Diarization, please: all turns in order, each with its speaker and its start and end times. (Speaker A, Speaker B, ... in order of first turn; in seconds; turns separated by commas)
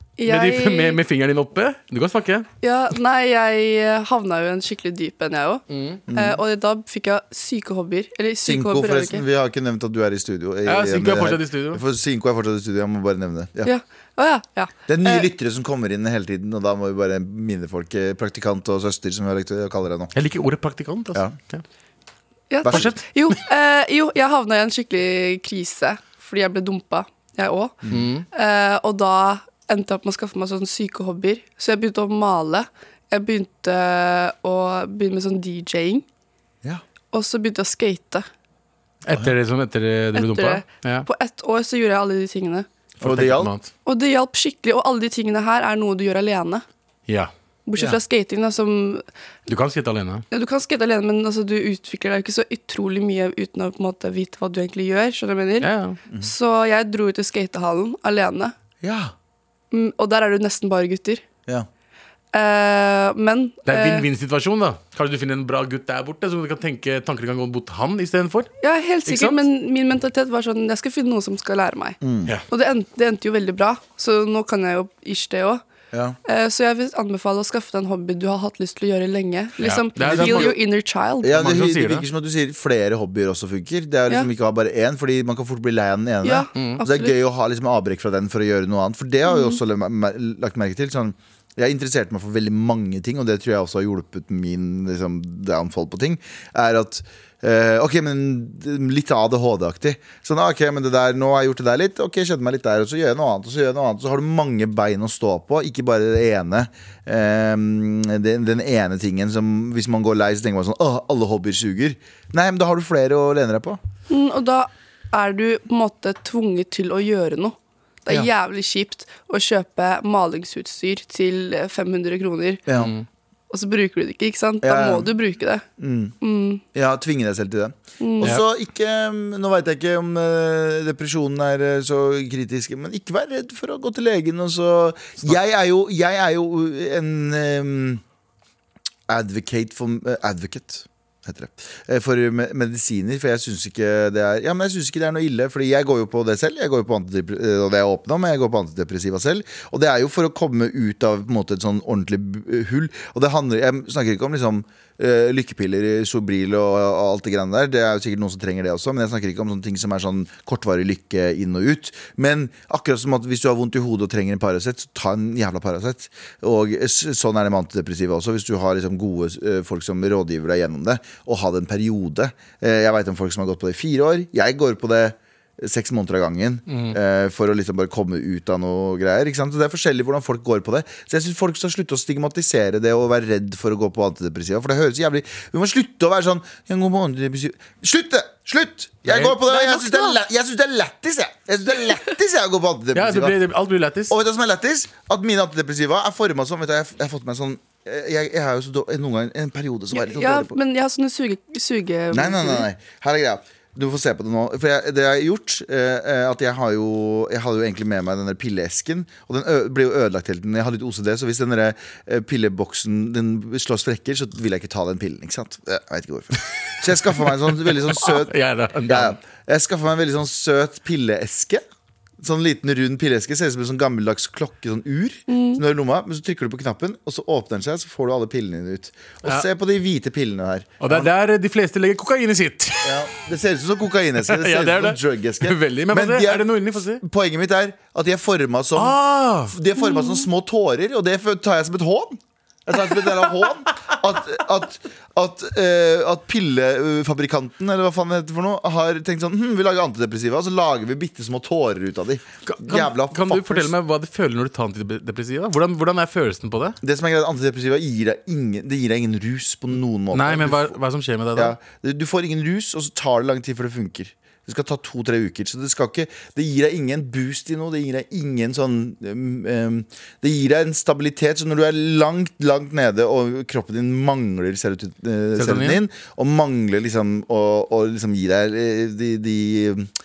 Speaker A: 0.2-1.0, Speaker B: 0.2-2.5, Speaker A: 2.6-9.2, Speaker B: 5.7-6.0, Speaker C: 6.1-6.4, Speaker C: 8.4-13.7, Speaker B: 10.6-11.8, Speaker A: 13.6-15.3, Speaker C: 14.9-20.1, Speaker B: 20.1-21.6, Speaker A: 22.5-27.8, Speaker C: 22.6-22.9, Speaker B: 22.6-23.1, Speaker B: 27.9-28.2, Speaker A: 28.3-36.0, Speaker A: 37.1-38.3, Speaker B: 39.0-41.1, Speaker A: 40.1-42.7, Speaker C: 43.0-43.5, Speaker B: 43.0-43.7, Speaker A: 43.9-46.6, Speaker A: 47.6-49.0, Speaker B: 49.5-50.2, Speaker A: 50.3-58.5, Speaker B: 55.6-56.0, Speaker C: 58.8-59.1, Speaker A: 59.7-61.2, Speaker A: 62.3-64.1, Speaker B: 63.7-68.5, Speaker A: 68.6-72.0, Speaker B: 69.0-69.4, Speaker C: 72.0-72.3, Speaker A: 72.5-75.6, Speaker A: 76.2-81.4, Speaker B: 79.6-80.5, Speaker C: 80.0-80.5, Speaker C: 81.2-113.8, Speaker B: 81.3-82.1, Speaker A: 86.2-87.1, Speaker B: 86.5-86.8, Speaker A: 89.3-89.6, Speaker A: 114.1-122.6, Speaker C: 122.7-122.9, Speaker B: 122.7-123.0, Speaker A: 123.5-125.6, Speaker C: 124.6-125.1, Speaker C: 125.8-126.2, Speaker A: 126.2-126.6, Speaker C: 126.7-138.0, Speaker A: 128.0-128.4, Speaker C: 139.1-193.4, Speaker B: 176.7-177.0, Speaker B: 189.1-189.4, Speaker A: 189.6-190.2, Speaker B: 192.9-194.1, Speaker C: 194.1-200.5, Speaker A: 199.9-202.7, Speaker C: 202.1-218.3, Speaker B: 217.2-219.2, Speaker C: 218.9-221.6, Speaker C: 222.2-231.1, Speaker A: 225.3-225.6, Speaker B: 230.8-233.1, Speaker C: 232.8-253.7, Speaker B: 234.2-237.0, Speaker B: 238.7-239.6, Speaker B: 252.5-256.8, Speaker C: 256.8-260.8, Speaker B: 260.1-261.6, Speaker C: 261.3-279.9, Speaker B: 275.4-275.8